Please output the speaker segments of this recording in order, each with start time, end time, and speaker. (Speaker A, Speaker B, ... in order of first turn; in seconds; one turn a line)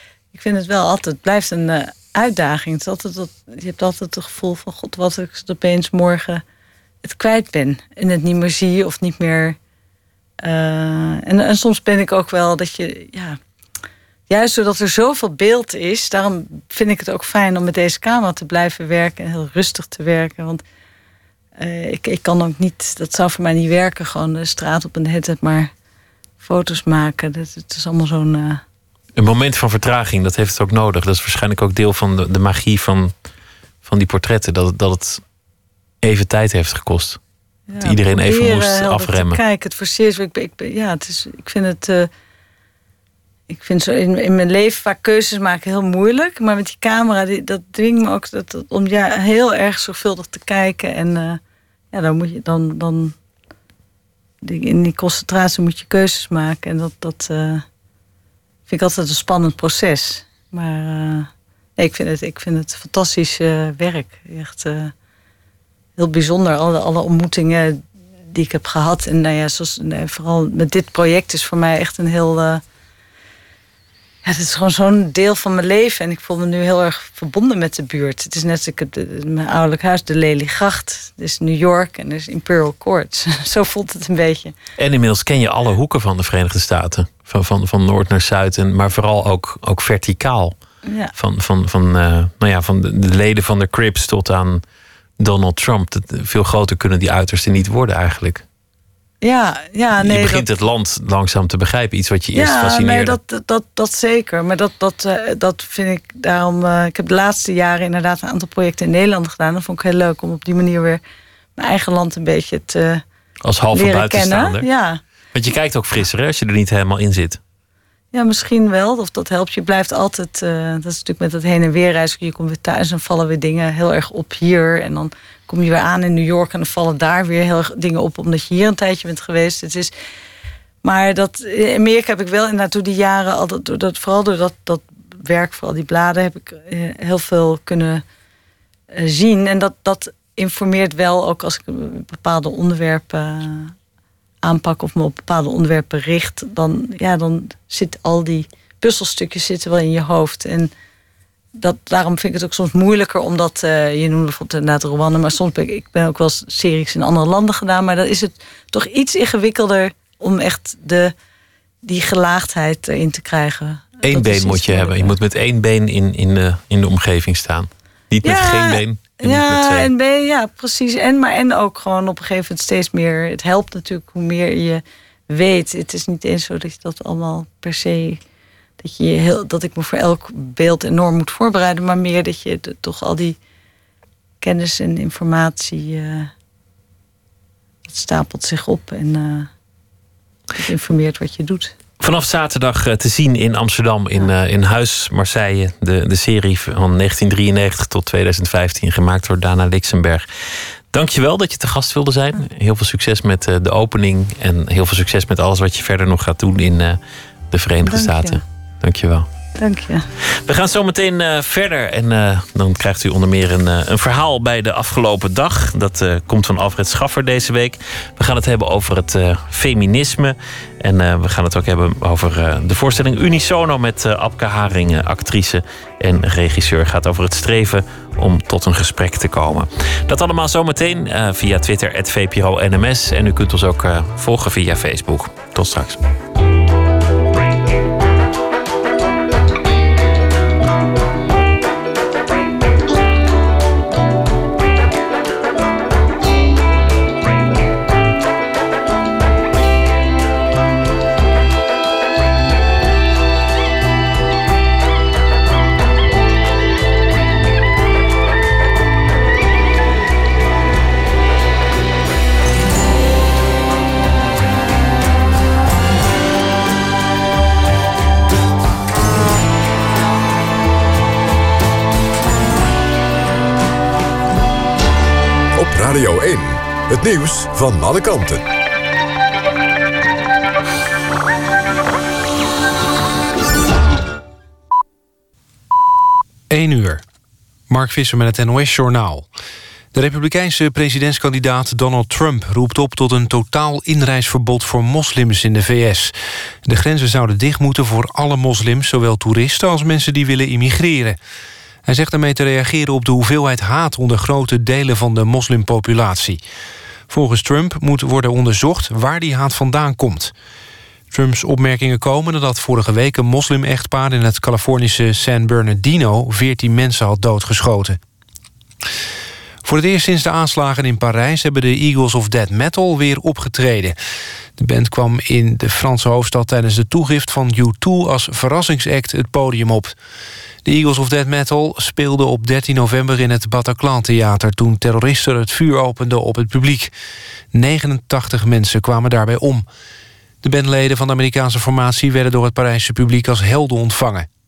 Speaker A: 0.3-6.4
Speaker A: 7.0-9.6
Speaker A: 10.4-13.4
Speaker A: 14.3-20.6
Speaker A: 21.6-25.7
Speaker A: 26.4-28.6
Speaker B: 29.1-33.1
Speaker B: 33.8-35.2
Speaker B: 36.0-37.2
Speaker A: 37.7-42.1
Speaker B: 37.8-39.4
Speaker A: 43.5-51.4
Speaker A: 51.9-53.1
Speaker A: 54.4-57.6
Speaker A: 58.7-64.9
Speaker A: 66.0-72.6
Speaker A: 74.2-84.5
Speaker B: 84.8-90.5
Speaker A: 90.8-91.1
Speaker B: 91.1-94.6
Speaker B: 95.2-98.4
Speaker A: 99.2-100.5
Speaker B: 100.0-103.2
Speaker A: 102.3-111.0
Speaker A: 111.5-113.0
Speaker B: 113.4-114.7
Speaker A: 113.7-115.0
Speaker B: 115.3-117.4
Speaker A: 118.1-129.9
Speaker A: 130.8-138.0
Speaker A: 138.9-143.7
Speaker A: 144.4-150.7
Speaker A: 151.6-161.1
Speaker A: 161.8-165.1
Speaker B: 164.0-169.9
Speaker A: 168.2-178.2
Speaker A: 178.8-183.4
Speaker A: 184.4-186.3
Speaker A: 187.9-189.5
Speaker A: 190.5-191.7
Speaker B: 192.0-200.2
Speaker B: 200.9-207.0
Speaker B: 207.5-209.3
Speaker A: 207.8-208.4
Speaker A: 209.6-210.1
Speaker B: 210.4-236.0
Speaker C: 275.6-278.4
Speaker D: 286.5-287.0
Speaker D: 287.7-289.2
Speaker D: 289.9-296.1
Speaker D: 296.6-301.2
Speaker D: 301.9-306.4
Speaker D: 307.1-310.3
Speaker D: 311.1-318.0
Speaker D: 319.6-323.9
Speaker D: 324.6-329.9
Speaker D: 330.6-336.9
Speaker D: 337.5-339.6
Speaker D: 340.4-344.3